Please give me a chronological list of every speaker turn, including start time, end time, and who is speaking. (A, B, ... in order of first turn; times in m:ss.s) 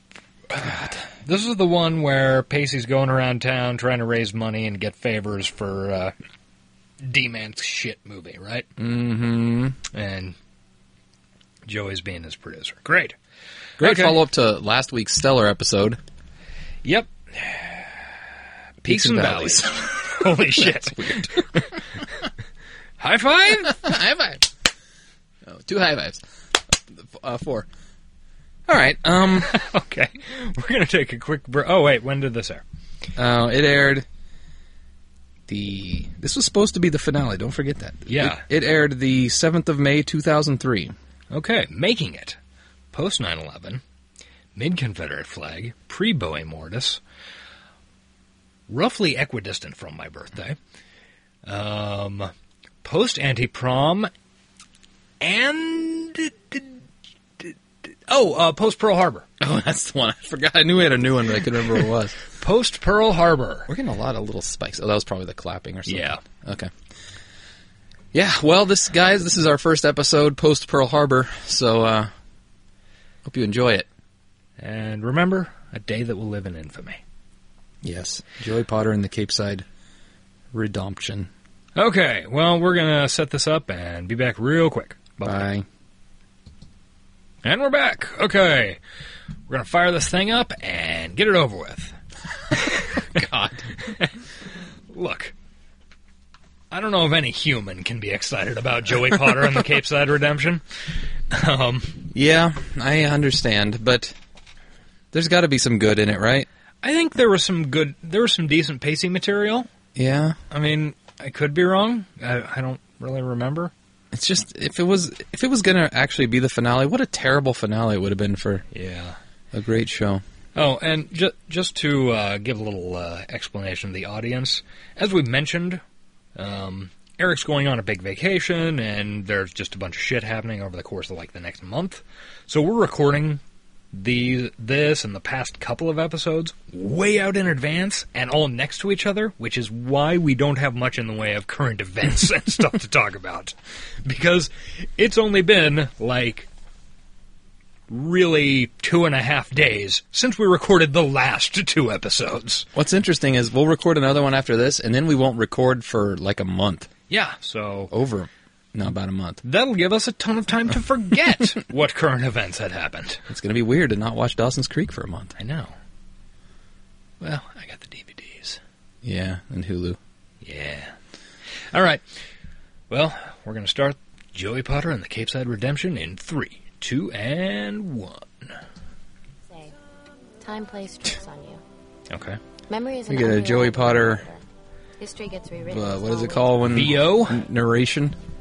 0:00.5-0:06.1 A
0:07.0-0:08.7 A
0:08.8-0:09.8 B
0:09.9-0:10.4 A
0:11.7-0:13.2 A
0:13.8-0:14.3 A
0:13.8-0:16.0 B
0:16.8-0:17.9 A
0:18.8-0:21.8 B
0:18.8-0:21.8 A
0:23.0-0:23.9 A
0:23.6-0:24.5 B
0:25.4-0:26.2 B
0:26.7-0:27.7 B
0:28.7-0:29.5 B
0:29.4-0:32.6 A
0:33.2-0:34.1 B
0:35.5-0:41.0 B
0:38.1-0:38.4 A
0:41.3-0:42.4 A
0:42.9-0:43.8 A
0:44.6-0:47.0 A
0:48.7-0:50.6 A
0:51.5-0:52.3 A
0:52.8-0:54.1 A
0:55.2-0:56.8 A
0:57.4-0:59.3 A
0:59.4-1:02.2 B
1:02.4-1:03.7 A
1:03.7-1:06.7 B
1:05.9-1:06.2 A
1:08.1-1:12.1 B
1:13.2-1:13.9 B
1:14.6-1:17.0 A
1:17.8-1:19.7 B
1:20.5-1:21.3 B
1:21.8-1:25.5 A
1:25.2-1:25.7 B
1:27.4-1:28.8 A
1:29.5-1:32.0 A
1:32.5-1:33.1 A
1:33.1-1:33.8 B
1:33.8-1:34.2 A
1:34.9-1:35.3 A
1:36.7-1:40.6 A
1:41.3-1:42.0 A
1:42.1-1:44.2 B
1:45.1-1:46.5 B
1:46.8-1:49.7 A
1:50.0-1:50.4 B
1:50.5-1:53.7 A
1:54.1-1:58.6 B
1:58.7-1:59.2 A
1:59.5-2:00.2 B
2:00.6-2:05.8 A
2:06.4-2:13.4 A
2:13.9-2:26.5 A
2:27.9-2:32.7 A
2:32.8-2:36.9 B
2:37.1-2:37.9 A
2:37.9-2:39.4 B
2:39.4-2:43.2 A
2:43.3-2:45.4 B
2:45.4-2:45.8 A
2:47.2-2:48.6 A
2:49.0-2:50.0 B
2:50.4-2:51.0 A
2:51.7-2:52.0 A
2:52.9-2:58.6 A
2:59.5-2:59.8 C
3:00.4-3:01.6 C
3:02.1-3:02.4 A
3:02.7-3:04.4 C
3:03.1-3:04.2 B
3:05.0-3:06.6 C
3:05.7-3:08.2 B
3:06.7-3:07.4 A